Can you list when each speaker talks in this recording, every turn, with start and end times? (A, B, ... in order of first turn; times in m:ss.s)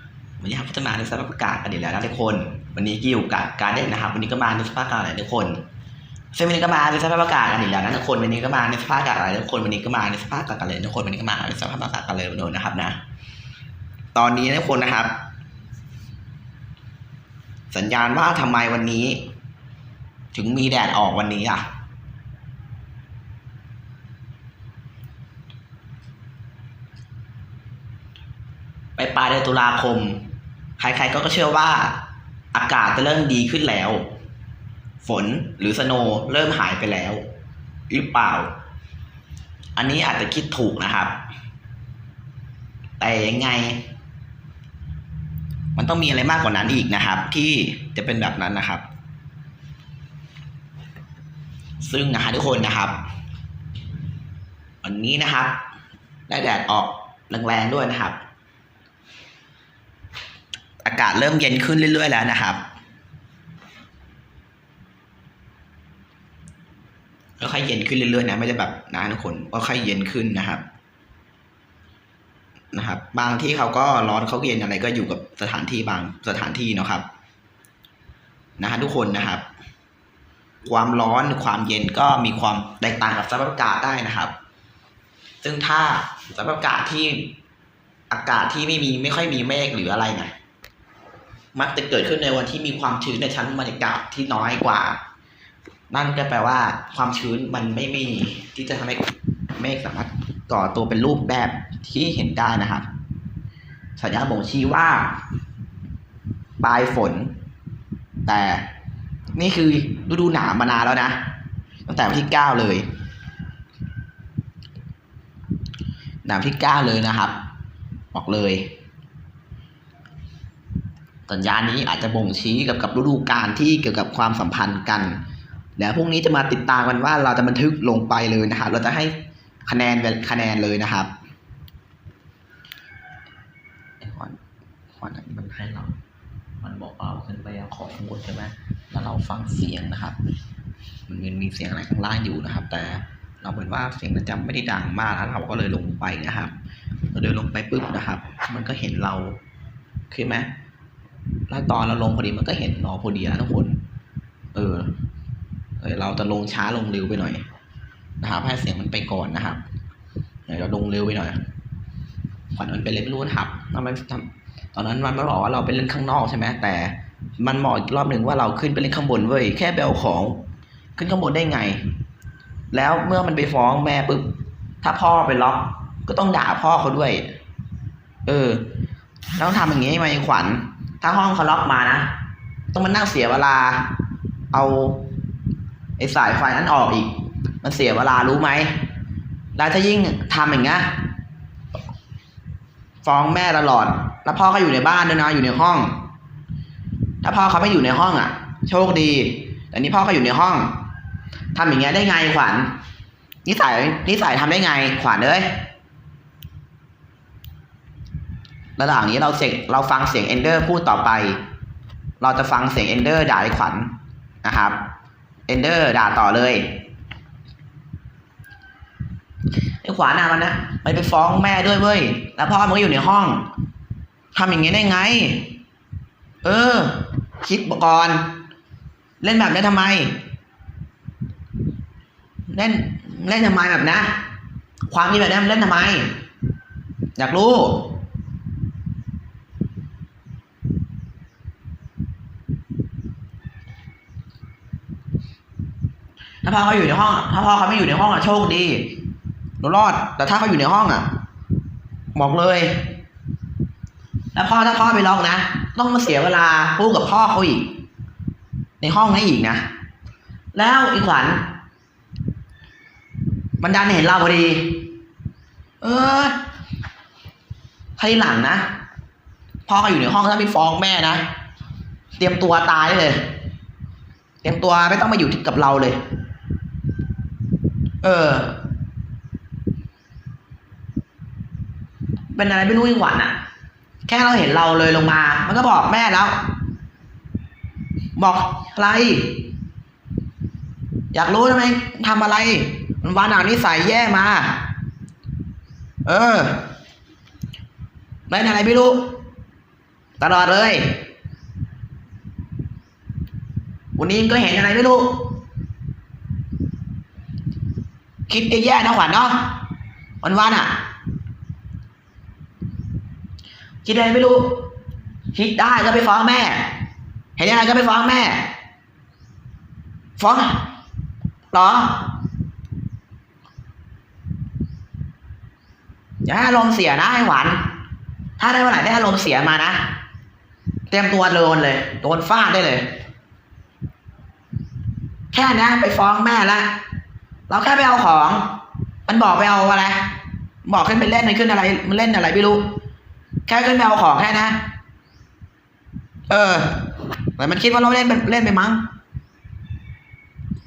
0:00.4-0:05.6 A
0:06.3-0:13.0 A
0:14.1-0:15.2 A
0:17.7-0:19.2 A
0:20.3-0:21.6 A
0:29.0-0:30.2 A
0:30.8-0:32.0 A
0:32.5-0:34.1 A
0:35.0-0:37.2 A
0:37.9-0:38.5 A
0:39.8-0:41.2 A
0:43.0-0:43.8 A
0:45.8-0:48.9 A
0:51.8-0:53.0 A
0:54.8-0:55.6 A
0:56.3-0:58.2 A
1:00.8-1:02.6 A
1:07.4-1:10.6 A
1:12.7-1:17.1 A
1:18.6-1:19.4 A
1:20.6-1:24.3 A
1:25.4-1:27.3 A
1:28.1-1:30.3 A
1:31.5-1:35.0 A
1:35.9-1:42.9 A
1:44.0-1:45.2 A
1:46.6-1:47.3 A
1:48.2-1:48.7 A
1:49.3-1:51.2 A
1:51.8-1:52.8 A
1:56.2-1:57.4 A
1:58.1-1:58.7 A
2:01.3-2:05.2 A
2:05.8-2:11.1 A
2:14.0-2:14.4 A
2:14.9-2:16.0 A
2:16.6-2:20.2 A
2:21.1-2:26.5 A
2:27.1-2:29.4 A
2:30.1-2:30.5 A
2:31.5-2:33.8 A
2:34.6-2:34.9 A
2:35.8-2:37.5 A
2:38.2-2:39.6 A
2:40.5-2:41.4 A
2:42.5-2:50.4 A
2:51.0-2:51.9 A
2:52.7-2:54.3 A
2:54.8-2:57.3 A
2:58.2-2:58.7 A
2:59.4-3:02.1 A
3:02.7-3:03.9 A
3:04.5-3:05.1 A
3:06.0-3:08.8 A
3:09.6-3:10.9 A
3:13.0-3:16.0 A
3:17.2-3:20.8 A
3:21.6-3:22.7 A
3:23.4-3:25.6 A
3:28.8-3:31.4 A
3:32.2-3:33.9 A
3:34.4-3:34.8 A
3:35.5-3:36.7 A
3:39.8-3:43.5 A
3:44.3-3:45.5 A
3:46.4-3:48.3 A
3:49.2-3:50.2 A
3:52.5-3:54.2 A
3:54.9-3:56.1 A
3:57.2-3:57.9 A
4:06.4-4:09.0 A
4:09.6-4:11.1 A
4:12.1-4:12.9 A
4:14.3-4:17.7 A
4:18.8-4:19.7 A
4:20.5-4:21.4 A
4:23.6-4:24.9 A
4:25.8-4:26.4 A
4:28.0-4:28.7 A
4:29.7-4:31.2 A
4:32.2-4:33.3 A
4:34.4-4:36.0 A
4:38.0-4:38.6 A
4:42.3-4:43.4 A
4:44.1-4:46.4 A
4:48.2-4:49.4 A
4:51.1-4:54.7 A
4:56.0-4:56.7 A
4:58.3-4:59.1 A
5:00.2-5:01.0 A
5:04.0-5:05.3 A
5:08.3-5:09.6 A
5:10.2-5:10.8 A
5:13.8-5:14.6 A
5:15.3-5:16.7 A
5:17.4-5:18.5 A
5:20.2-5:20.7 A
5:21.5-5:22.1 A
5:26.2-5:27.6 A
5:28.4-5:29.9 A
5:30.9-5:32.9 A
5:35.3-5:36.8 A
5:37.5-5:38.5 A
5:39.1-5:40.1 A
5:40.6-5:42.8 A
5:43.5-5:44.6 A
5:46.3-5:48.9 A